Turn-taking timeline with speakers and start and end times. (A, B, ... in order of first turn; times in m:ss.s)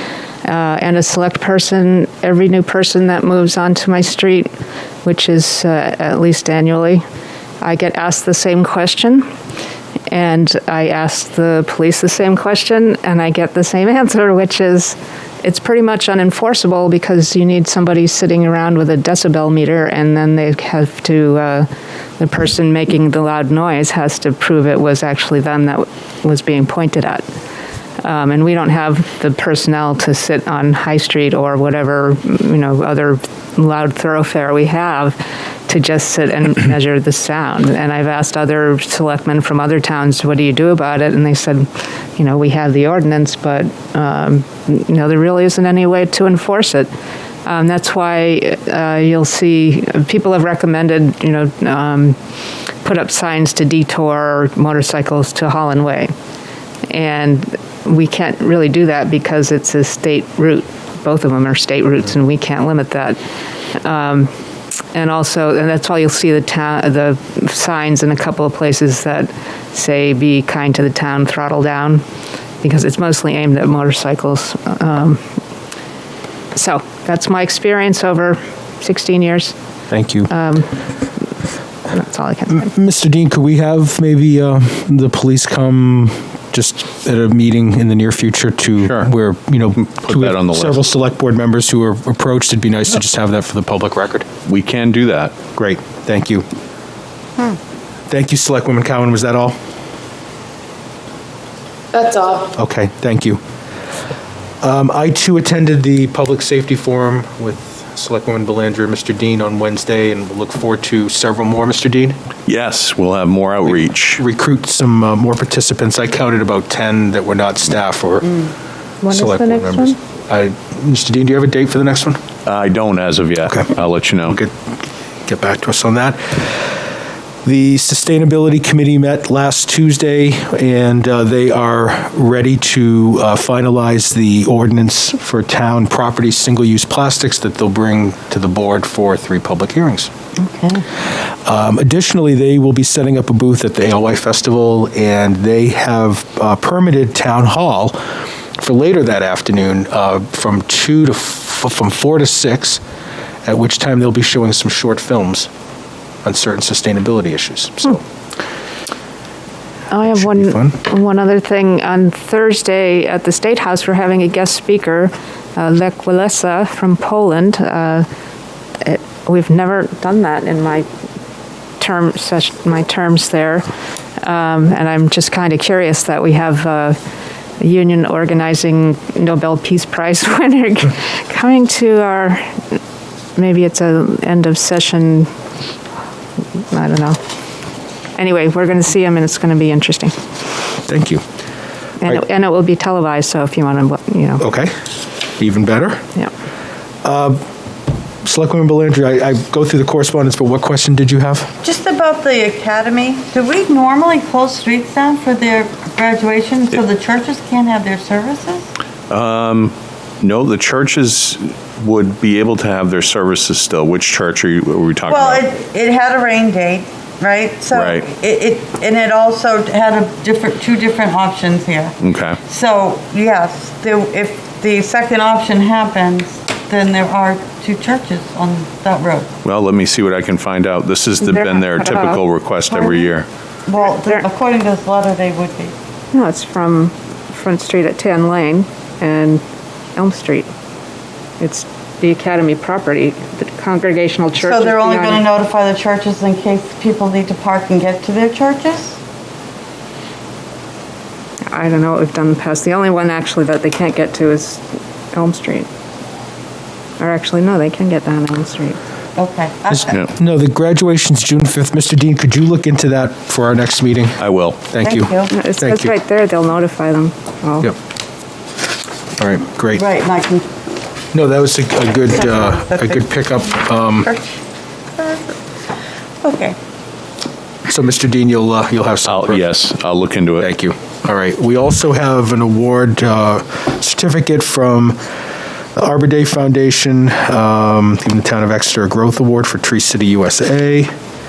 0:00.4-0:04.5 A
0:05.0-0:07.0 A
0:07.6-0:09.3 A
0:10.1-0:21.7 A
0:22.2-0:27.2 A
0:28.0-0:35.2 A
0:35.7-0:46.9 A
0:47.4-0:52.2 A
0:52.8-0:56.1 A
0:56.9-1:03.2 A
1:03.7-1:04.3 A
1:04.9-1:12.0 A
1:12.6-1:15.2 A
1:16.5-1:19.5 A
1:19.9-1:20.3 B
1:20.3-1:20.7 A
1:21.9-1:22.7 A
1:22.5-1:34.3 B
1:29.8-1:30.8 C
1:34.5-1:35.3 C
1:35.6-1:36.4 B
1:38.1-1:39.6 B
1:41.9-1:42.5 A
1:42.5-1:43.4 B
1:44.6-1:52.2 B
1:52.5-1:54.2 C
1:53.6-1:58.5 B
1:59.0-2:00.0 A
1:59.1-2:02.2 B
2:02.5-2:04.4 C
2:05.3-2:06.7 B
2:07.4-2:20.1 B
2:20.4-2:20.8 D
2:21.4-2:28.0 B
2:28.6-2:32.8 B
2:33.4-2:35.5 B
2:36.2-2:38.0 B
2:39.9-2:48.1 A
2:40.1-2:40.8 B
2:48.8-2:50.9 A
2:51.8-2:53.7 A
2:54.2-2:57.0 A
2:57.6-3:02.6 A
3:03.4-3:05.3 A
3:06.7-3:07.2 A
3:08.2-3:10.2 A
3:10.9-3:11.2 B
3:12.0-3:14.5 A
3:14.4-3:14.7 B
3:15.4-3:16.0 B
3:17.0-3:17.4 B
3:18.2-3:21.6 B
3:21.6-3:28.7 D
3:29.1-3:35.4 C
3:35.1-3:49.3 D
3:37.7-3:38.1 C
3:42.0-3:42.4 C
3:49.4-3:53.3 C
3:51.2-3:52.2 A
3:52.7-3:53.1 D
3:53.7-3:55.7 D
3:56.1-3:59.4 A
4:00.0-4:00.5 A
4:01.4-4:05.2 A
4:04.4-4:09.0 D
4:11.5-4:15.7 A
4:17.0-4:18.8 A
4:19.2-4:20.0 D
4:19.7-4:26.0 B
4:24.2-4:24.6 C
4:24.8-4:25.3 D
4:25.3-4:27.7 A
4:29.2-4:29.8 B
4:29.8-4:30.5 D
4:31.1-4:34.1 B
4:32.1-4:33.1 D
4:34.0-4:34.4 D
4:35.0-4:35.4 D
4:36.2-4:36.6 D
4:37.7-4:39.5 B
4:39.1-4:40.5 C
4:40.4-4:45.0 B
4:45.8-4:50.9 B